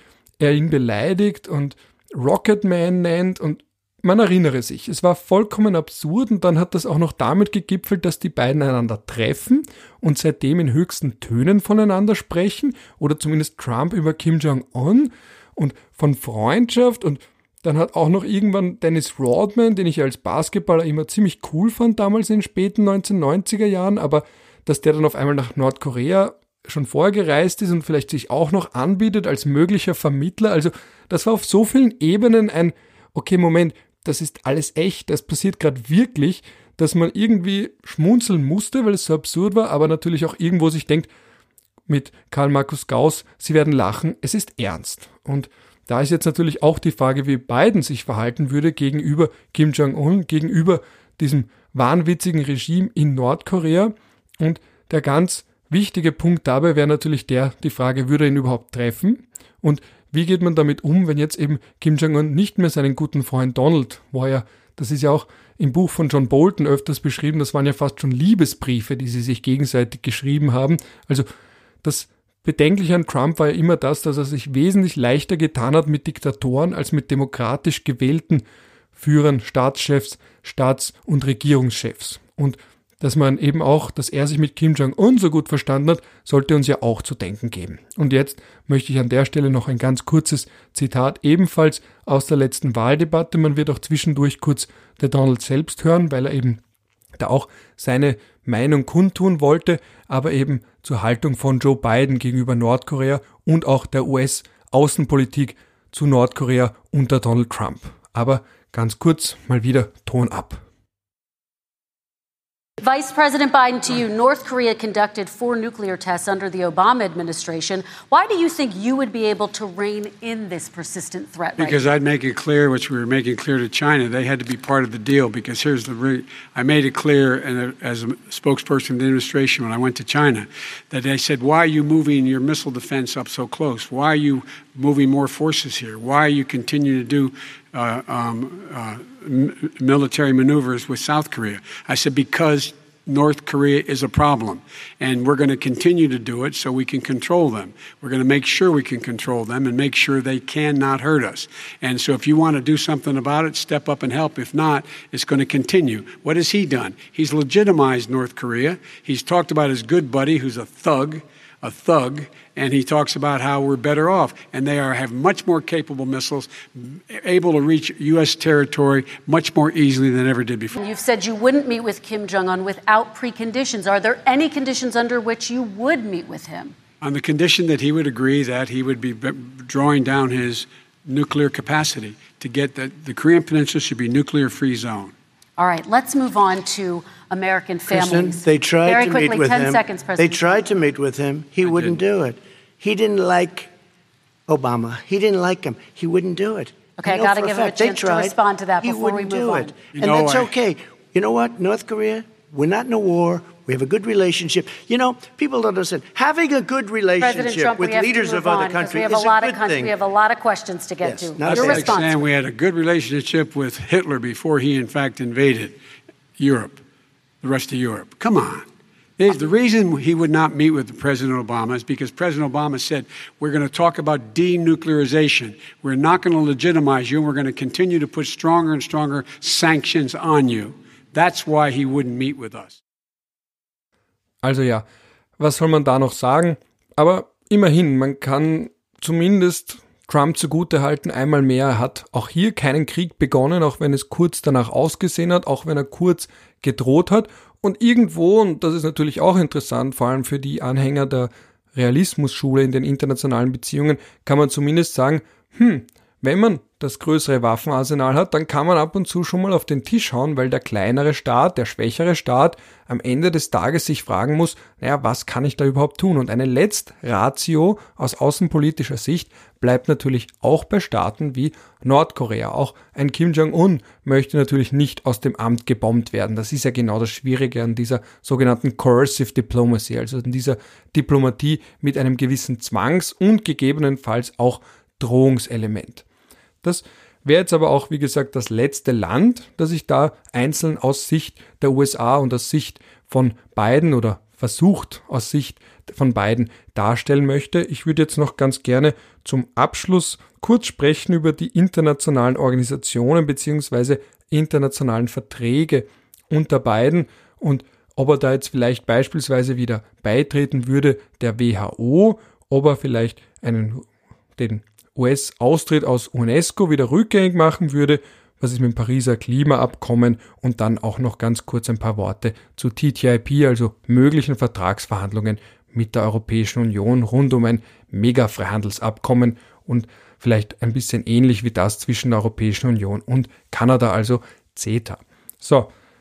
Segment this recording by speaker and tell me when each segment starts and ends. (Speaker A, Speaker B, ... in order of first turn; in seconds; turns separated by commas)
Speaker A: 0.4-41.1, Speaker A: 41.9-71.3, Speaker A: 71.8-78.4, Speaker A: 79.0-96.6, Speaker A: 97.2-110.6, Speaker B: 112.8-121.8, Speaker C: 121.6-170.8, Speaker B: 170.8-176.8, Speaker C: 177.0-185.1, Speaker B: 185.6-190.7, Speaker D: 187.9-193.7, Speaker C: 191.6-192.0, Speaker D: 194.5-209.9, Speaker B: 197.0-199.7, Speaker C: 199.9-200.5, Speaker B: 207.2-212.1, Speaker D: 211.0-212.0, Speaker C: 211.4-215.8, Speaker C: 216.4-216.8, Speaker C: 217.4-218.7, Speaker C: 219.2-232.8, Speaker A: 234.4-234.8, Speaker A: 235.4-286.0, Speaker A: 286.6-313.9, Speaker A: 314.4-335.7